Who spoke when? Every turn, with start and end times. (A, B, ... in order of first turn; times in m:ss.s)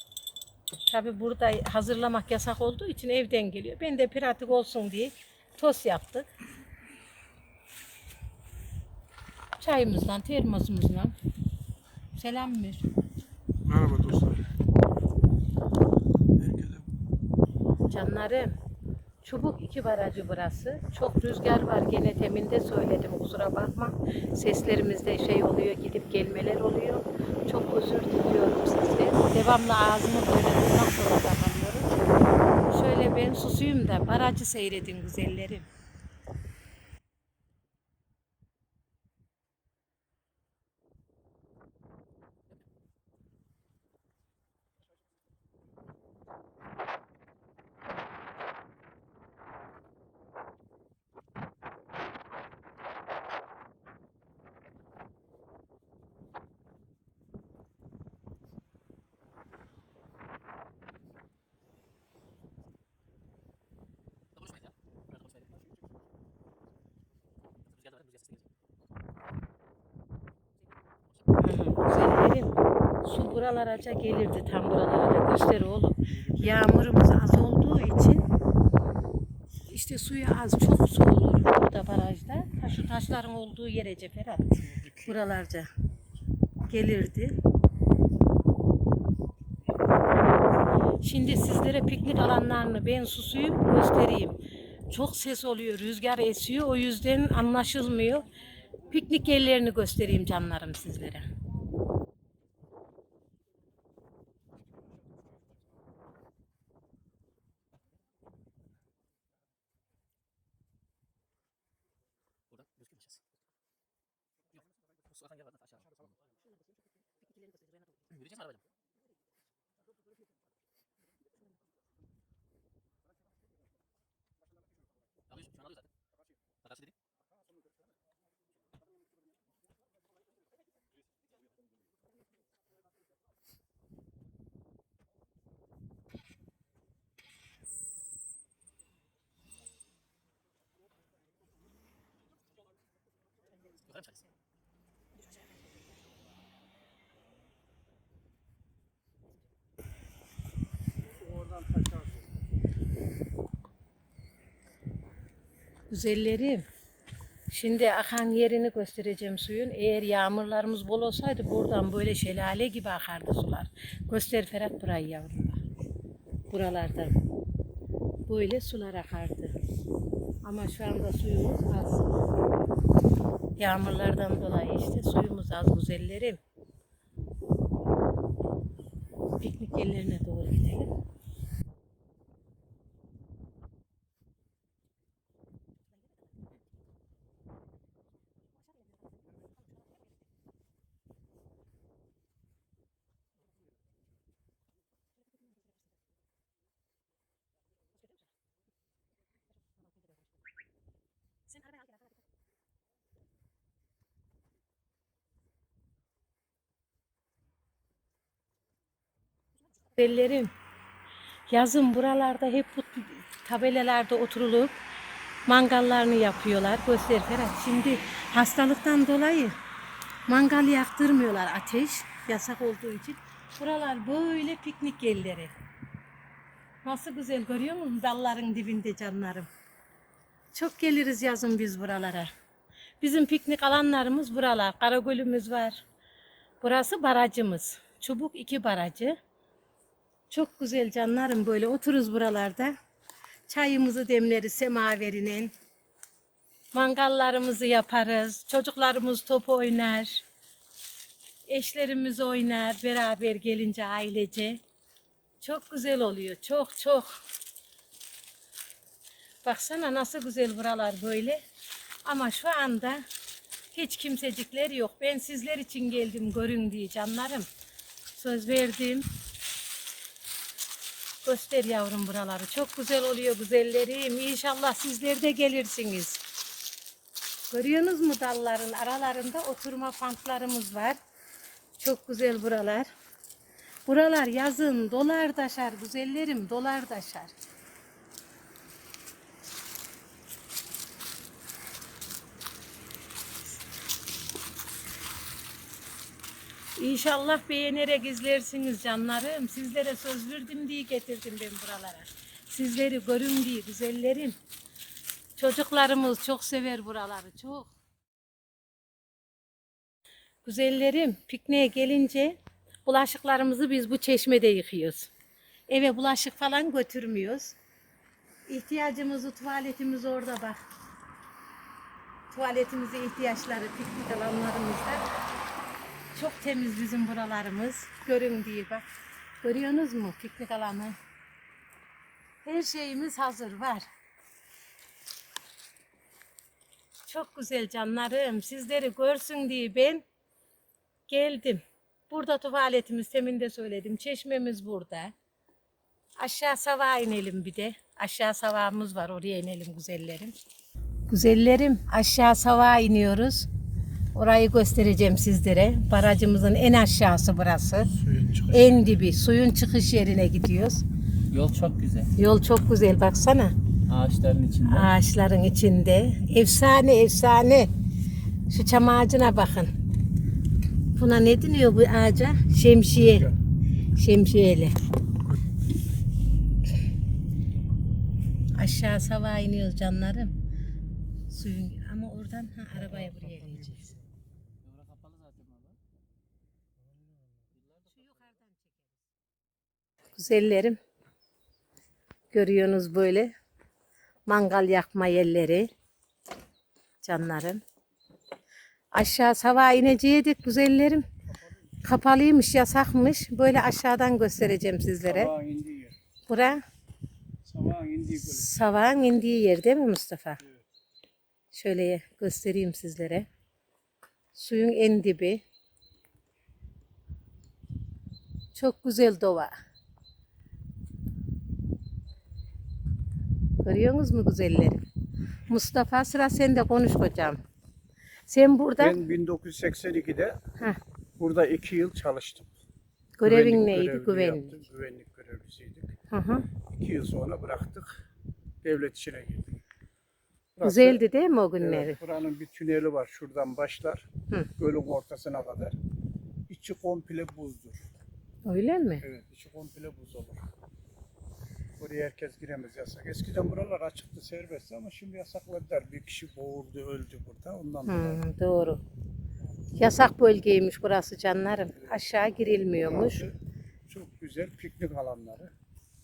0:00.9-0:06.3 A
0:09.6-0:11.1 A
0:12.2-0:12.9 A
0:13.8-0:14.3 B
0:16.4-0:16.8 B
0:17.9-0:18.6 A
0:19.2-0:31.9 A
0:32.7-0:35.7 A
1:04.4-1:04.7 C
1:07.8-1:08.4 C
1:11.4-1:18.2 A
1:19.7-1:25.7 A
1:24.7-1:25.1 B
1:26.7-1:27.4 A
1:31.0-1:34.4 A
1:34.9-1:38.3 A
1:38.9-1:41.2 A
2:31.1-2:32.2 B
2:35.9-2:36.6 A
2:37.5-2:45.6 A
2:46.5-2:47.1 A
2:48.3-2:49.5 A
2:50.4-2:52.1 A
2:53.6-2:56.4 A
2:59.4-3:00.9 A
3:29.9-3:30.5 A
3:31.5-3:34.8 A
3:35.4-3:39.5 A
3:40.3-3:45.5 A
3:46.8-3:49.5 A
3:50.5-3:52.3 A
3:53.0-3:55.8 A
3:56.6-3:59.2 A
4:00.3-4:02.7 A
4:03.5-4:05.5 A
4:06.7-4:10.2 A
4:11.5-4:14.6 A
4:15.4-4:17.2 A
4:19.4-4:21.4 A
4:22.0-4:23.0 A
4:23.7-4:27.5 A
4:28.1-4:29.1 A
4:31.2-4:36.2 A
4:37.5-4:41.0 A
4:41.8-4:42.9 A
4:43.8-4:47.3 A
4:56.8-5:04.4 A
5:05.4-5:07.7 A
5:10.4-5:15.1 A
5:15.7-5:17.6 A
5:18.5-5:20.6 A
5:22.3-5:25.0 A
5:26.1-5:28.8 A
5:29.4-5:31.0 A
5:32.4-5:33.9 A
5:37.0-5:40.0 A
5:41.1-5:45.1 A
5:46.2-5:50.3 A
5:51.1-5:53.5 A
5:54.1-6:00.8 A
6:01.3-6:02.1 C
6:02.2-6:03.5 A
6:03.9-6:04.9 C
6:04.7-6:07.7 A
6:08.5-6:09.7 A
6:10.9-6:13.3 A
6:14.0-6:14.7 A
6:18.6-6:20.3 A
6:21.3-6:24.0 A
6:24.6-6:25.8 C
6:27.5-6:28.2 C
6:27.9-6:28.8 A
6:30.2-6:30.8 A
6:32.3-6:33.3 A
6:34.3-6:35.7 A
6:37.0-6:37.6 A
6:38.9-6:41.0 A
6:41.8-6:45.3 A
6:45.1-6:46.0 B
6:46.3-6:46.6 A
6:47.4-6:48.5 B
6:48.2-6:50.4 A
6:51.5-6:53.3 A
6:54.3-6:55.4 A
6:58.5-6:59.5 A
7:03.6-7:04.8 A
7:05.5-7:07.4 A
7:08.3-7:09.0 A
7:08.8-7:10.4 B
7:11.2-7:12.5 B
7:13.2-7:14.6 A
7:13.2-7:16.0 B
7:16.1-7:16.5 A
7:16.7-7:18.0 B
7:18.6-7:19.6 B
7:20.6-7:21.0 B
7:20.6-7:22.0 A
7:21.6-7:25.8 B
7:26.5-7:27.8 B
7:28.4-7:29.0 A
7:29.0-7:30.4 B
7:31.8-7:38.2 B
7:37.8-7:38.8 A
7:39.8-7:43.3 A
7:43.9-7:45.5 B